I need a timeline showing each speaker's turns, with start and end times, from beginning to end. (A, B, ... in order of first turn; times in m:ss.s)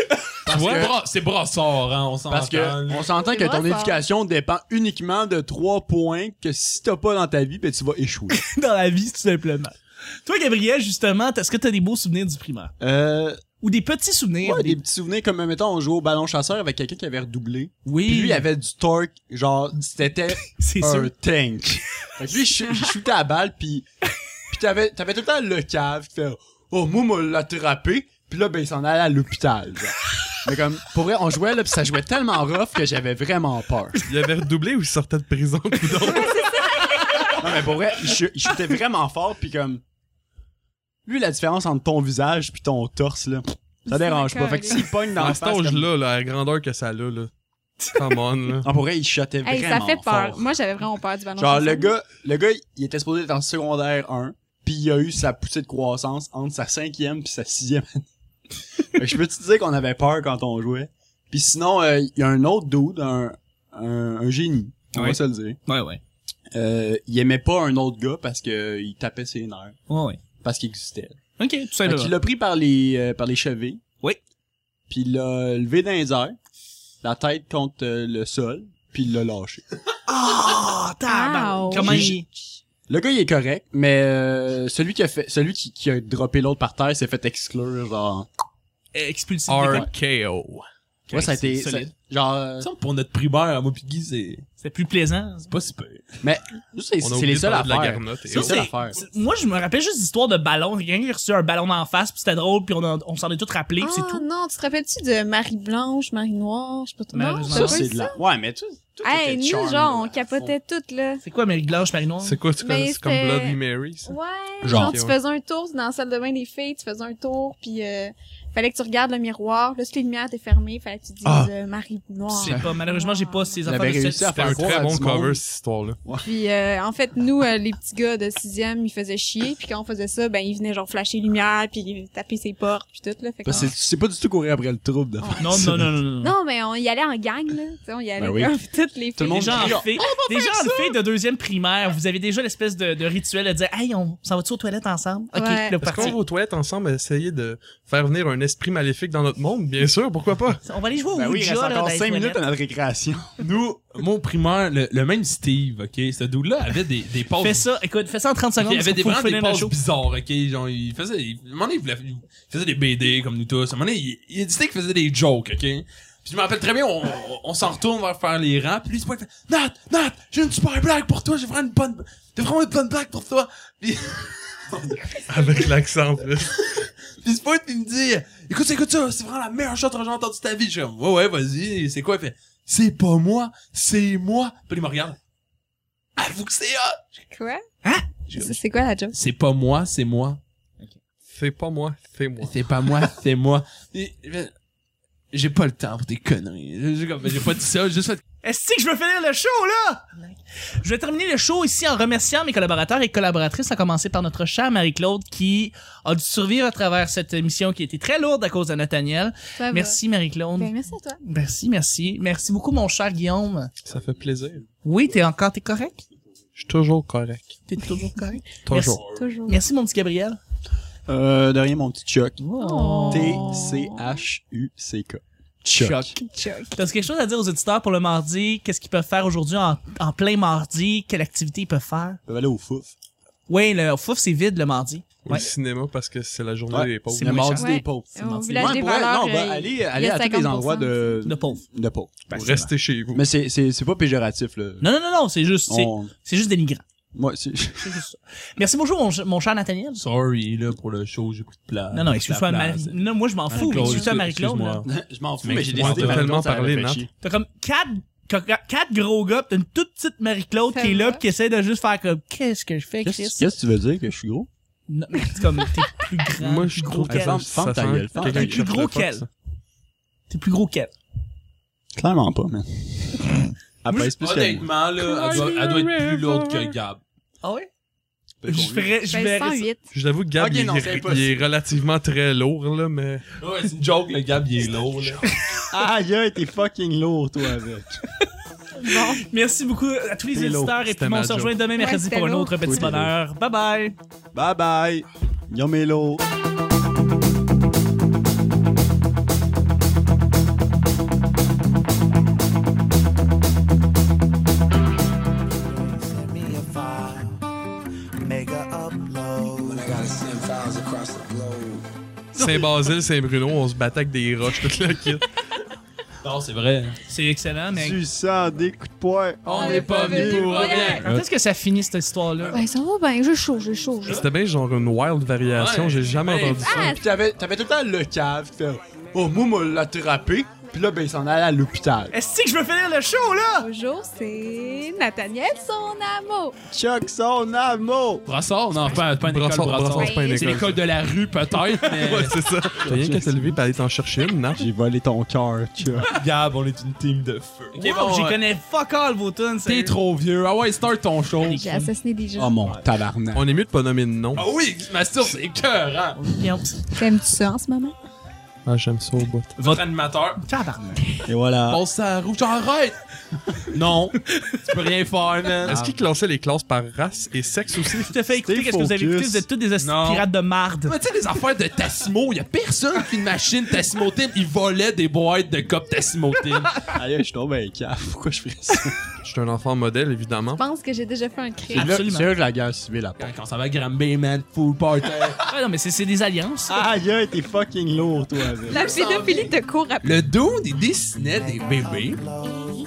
0:00.4-0:01.0 A
0:00.5-0:03.1 B
0:00.5-0:00.8 C
0:02.3-0:08.4 A
0:03.1-0:04.0 D
0:08.3-0:12.7 E
0:12.8-0:13.4 A
0:13.6-0:14.8 E
0:14.4-0:23.9 A
0:17.9-0:18.5 E
0:20.5-0:21.1 E
0:24.5-0:34.0 A
0:34.1-0:36.6 C
0:37.4-0:39.8 A
0:41.1-0:45.9 A
0:43.9-0:44.9 D
0:45.2-0:47.3 C
0:47.9-0:48.7 C
0:48.6-0:50.4 A
0:49.4-0:51.9 D
0:51.4-0:58.0 A
0:58.9-1:05.6 A
1:05.0-1:06.0 E
1:06.5-1:09.8 A
1:09.9-1:10.2 E
1:10.4-1:11.2 A
1:11.4-1:12.1 E
1:11.8-1:13.8 A
1:14.9-1:16.4 A
1:17.0-1:19.6 A
1:20.1-1:22.3 E
1:21.1-1:22.1 D
1:21.8-1:22.3 A
1:22.9-1:28.3 A
1:29.0-1:29.9 E
1:29.5-1:30.6 C
1:31.1-1:31.9 E
1:31.1-1:32.7 A
1:32.6-1:34.4 B
1:34.6-1:35.5 E
1:35.5-1:36.1 B
1:36.2-1:39.0 A
1:37.0-1:38.6 C
1:38.3-1:44.2 E
1:43.8-1:48.2 D
1:47.1-1:47.8 E
1:47.5-1:50.6 A
1:49.0-1:51.2 D
1:51.2-1:52.4 E
1:52.2-1:55.2 C
1:52.6-2:03.5 D
1:54.6-1:55.0 B
2:01.2-2:01.5 A
2:02.3-2:04.7 E
2:03.7-2:05.4 A
2:04.3-2:06.0 C
2:06.2-2:13.7 D
2:13.4-2:15.9 A
2:15.2-2:15.6 D
2:15.4-2:16.3 E
2:16.2-2:21.0 D
2:18.2-2:18.6 A
2:19.2-2:20.0 A
2:19.2-2:26.2 E
2:25.3-2:26.2 D
2:25.8-2:30.6 C
2:30.6-2:32.4 E
2:31.1-2:33.4 A
2:33.4-2:37.6 B
2:37.4-2:39.7 E
2:38.6-2:55.7 B
2:55.3-2:56.5 C
2:56.6-3:05.2 B
3:06.2-3:07.0 B
3:07.3-3:07.6 D
3:08.3-3:08.6 B
3:08.3-3:09.1 D
3:09.1-3:10.4 B
3:11.3-3:12.5 C
3:12.4-3:14.5 B
3:15.3-3:18.2 B
3:18.4-3:33.7 E
3:29.6-3:30.0 D
3:30.6-3:31.2 D
3:33.8-3:34.6 C
3:34.8-3:36.0 E
3:36.6-3:37.6 C
3:37.7-3:40.4 E
3:38.6-3:39.0 C
3:39.0-3:39.6 D
3:41.1-3:42.4 A
3:42.4-3:43.6 E
3:42.6-3:44.1 D
3:43.1-3:46.2 A
3:45.8-3:46.1 E
3:46.2-3:46.8 D
3:46.8-3:52.2 E
3:52.3-3:52.9 A
3:53.5-3:55.5 E
3:55.2-3:57.5 C
3:56.7-4:02.4 A
3:57.1-3:58.9 E
3:57.6-4:01.1 D
4:01.2-4:01.6 E
4:02.3-4:02.7 E
4:02.3-4:03.3 C
4:03.2-4:04.9 A
4:04.8-4:06.8 E
4:05.7-4:06.1 A
4:07.1-4:08.0 A
4:07.8-4:10.0 E
4:10.0-4:14.9 B
4:11.9-4:14.8 E
4:13.6-4:14.0 D
4:14.8-4:17.1 A
4:15.4-4:16.3 B
4:15.8-4:17.1 C
4:17.2-4:23.5 E
4:20.7-4:21.2 D
4:23.0-4:24.5 A
4:24.9-4:27.4 E
4:26.4-4:29.3 C
4:27.0-4:28.6 A
4:28.2-4:29.3 E
4:30.3-4:30.9 E
4:32.0-4:34.7 A
4:33.9-4:34.2 E
4:34.2-4:37.0 B
4:35.2-4:35.9 E
4:35.2-4:35.7 C
4:35.3-4:35.8 D
4:37.4-4:37.7 E
4:38.4-4:38.9 A
4:38.5-4:39.7 E
4:39.1-4:39.9 D
4:39.9-4:43.2 C
4:40.4-4:41.5 A
4:43.4-4:45.3 B
4:45.7-4:48.0 A
4:48.8-4:49.3 D
4:48.8-4:54.0 E
4:50.3-4:50.8 A
4:50.8-4:51.6 C
4:51.8-4:52.9 D
4:52.6-4:53.1 A
4:54.3-4:56.2 A
5:05.7-5:07.3 F
5:08.2-5:11.8 F
5:12.4-5:12.7 A
5:12.4-5:15.3 C
5:16.2-5:17.0 B
5:17.1-5:18.0 E
5:17.7-5:20.8 A
5:19.5-5:21.1 B
5:19.5-5:21.1 D
5:20.6-5:22.6 E
5:22.5-5:24.2 D
5:24.0-5:26.9 C
5:25.5-5:26.9 B
5:26.6-5:27.0 D
5:26.8-5:32.1 A
5:32.1-5:33.7 E
5:33.6-5:36.6 D
5:36.7-5:38.2 A
5:38.3-5:42.4 B
5:39.1-5:40.8 C
5:40.0-5:40.5 D
5:41.9-5:44.6 C
5:42.8-5:43.5 A
5:44.6-5:46.1 A
5:46.0-5:48.4 B
5:47.8-5:50.0 E
5:49.7-5:51.6 B
5:51.4-5:51.9 E
5:51.5-5:52.6 D
5:52.4-5:53.5 A
5:53.3-5:54.5 C
5:54.4-5:56.2 B
5:56.2-5:56.7 E
5:56.9-5:57.9 D
5:58.7-5:59.5 C
5:59.6-6:00.4 B
6:00.4-6:01.2 E
6:01.3-6:01.8 A
6:01.7-6:03.0 B
6:03.7-6:05.8 B
6:05.6-6:08.2 C
6:05.7-6:06.0 A
6:08.1-6:10.9 E
6:08.4-6:09.5 A
6:09.8-6:10.3 B
6:10.8-6:16.9 B
6:16.9-6:19.0 A
6:19.2-6:20.6 C
6:20.6-6:22.0 D
6:21.7-6:23.4 A
6:21.7-6:22.3 E
6:23.2-6:25.4 B
6:25.5-6:26.8 E
6:26.7-6:28.8 A
6:28.7-6:32.2 B
6:28.7-6:30.2 D
6:31.6-6:32.7 F